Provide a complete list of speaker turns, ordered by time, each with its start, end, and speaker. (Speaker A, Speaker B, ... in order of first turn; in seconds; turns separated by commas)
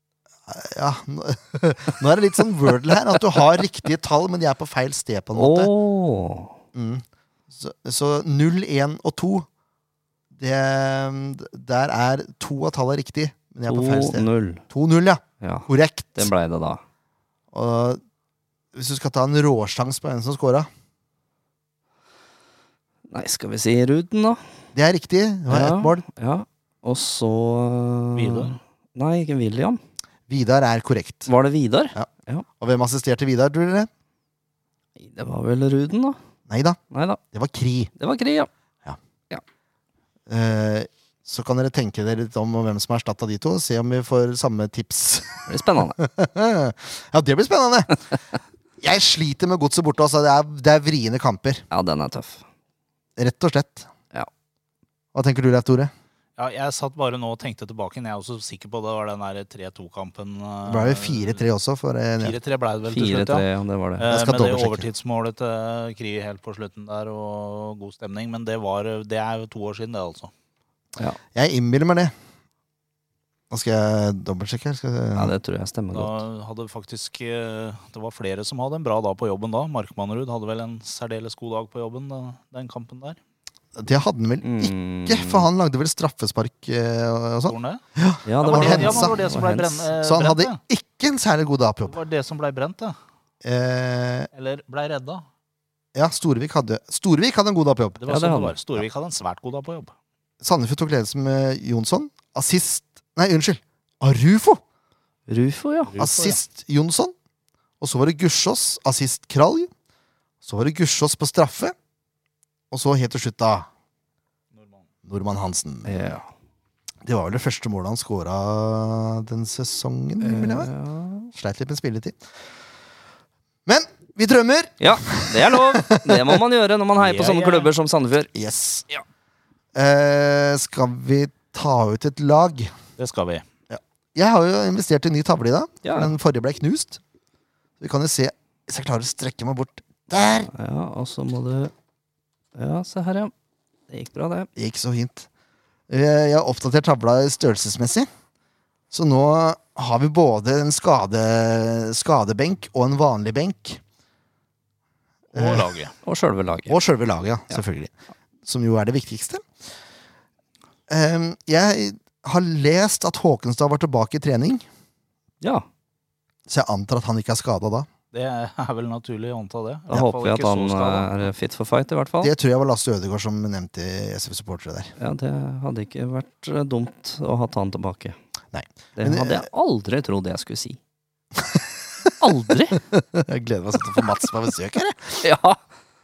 Speaker A: 0.5-5.7, Speaker B: 5.3-6.6, Speaker A: 6.7-9.5, Speaker A: 10.3-16.3, Speaker B: 13.7-14.6, Speaker B: 15.4-16.8, Speaker A: 17.5-18.0, Speaker A: 18.7-20.7, Speaker B: 23.1-24.4, Speaker A: 24.7-26.0, Speaker B: 25.5-29.8, Speaker C: 28.1-28.5, Speaker A: 30.3-31.3, Speaker B: 31.3-32.4, Speaker A: 32.6-33.9, Speaker B: 35.0-36.2, Speaker A: 36.5-36.8, Speaker B: 36.9-37.2, Speaker A: 37.3-37.9, Speaker B: 38.0-38.5, Speaker A: 40.3-48.0, Speaker B: 45.5-46.0, Speaker A: 48.8-51.6, Speaker B: 51.7-52.4, Speaker A: 53.2-53.9, Speaker A: 55.1-55.9, Speaker C: 56.4-61.4, Speaker A: 60.6-62.4, Speaker C: 62.2-63.5, Speaker B: 62.9-64.1, Speaker C: 64.0-70.3, Speaker A: 64.0-64.9, Speaker A: 71.3-72.1, Speaker A: 73.5-75.3, Speaker B: 75.1-76.2, Speaker C: 75.9-83.2, Speaker A: 83.8-89.2, Speaker B: 84.4-85.5, Speaker C: 87.5-87.8, Speaker B: 88.2-89.9, Speaker C: 88.4-90.6, Speaker A: 90.0-92.0, Speaker C: 91.9-93.0, Speaker A: 93.4-94.3, Speaker C: 94.3-95.2, Speaker A: 95.9-98.0, Speaker C: 98.0-99.9, Speaker B: 98.1-98.5, Speaker A: 100.4-104.6, Speaker B: 105.3-105.9, Speaker C: 105.9-106.4, Speaker A: 106.0-107.1, Speaker A: 107.8-109.7, Speaker A: 110.4-111.7, Speaker A: 112.7-113.7, Speaker C: 114.5-114.8, Speaker A: 115.0-115.9, Speaker B: 115.8-116.3, Speaker A: 117.0-120.7, Speaker B: 120.2-121.3, Speaker A: 121.3-122.2, Speaker A: 123.7-126.4, Speaker B: 124.8-128.3, Speaker C: 127.0-127.7, Speaker A: 128.3-128.9, Speaker A: 129.7-132.7, Speaker C: 133.0-133.4, Speaker A: 133.7-137.0, Speaker B: 135.8-136.1, Speaker A: 137.8-140.5, Speaker B: 140.5-141.7, Speaker B: 142.5-143.3, Speaker B: 143.9-144.5, Speaker A: 144.6-145.3, Speaker A: 145.9-148.1, Speaker A: 148.9-153.8, Speaker C: 155.3-155.9, Speaker A: 155.3-155.7, Speaker B: 156.0-156.8, Speaker A: 156.7-157.9, Speaker A: 158.4-159.4, Speaker A: 160.9-164.6, Speaker B: 165.4-165.7, Speaker A: 166.5-167.9, Speaker C: 168.1-171.1, Speaker B: 169.9-172.3, Speaker A: 172.2-174.9, Speaker B: 175.0-178.2, Speaker A: 178.5-179.5, Speaker B: 179.0-180.8, Speaker A: 181.4-181.6, Speaker B: 182.2-182.8, Speaker A: 182.9-185.2, Speaker B: 185.2-185.6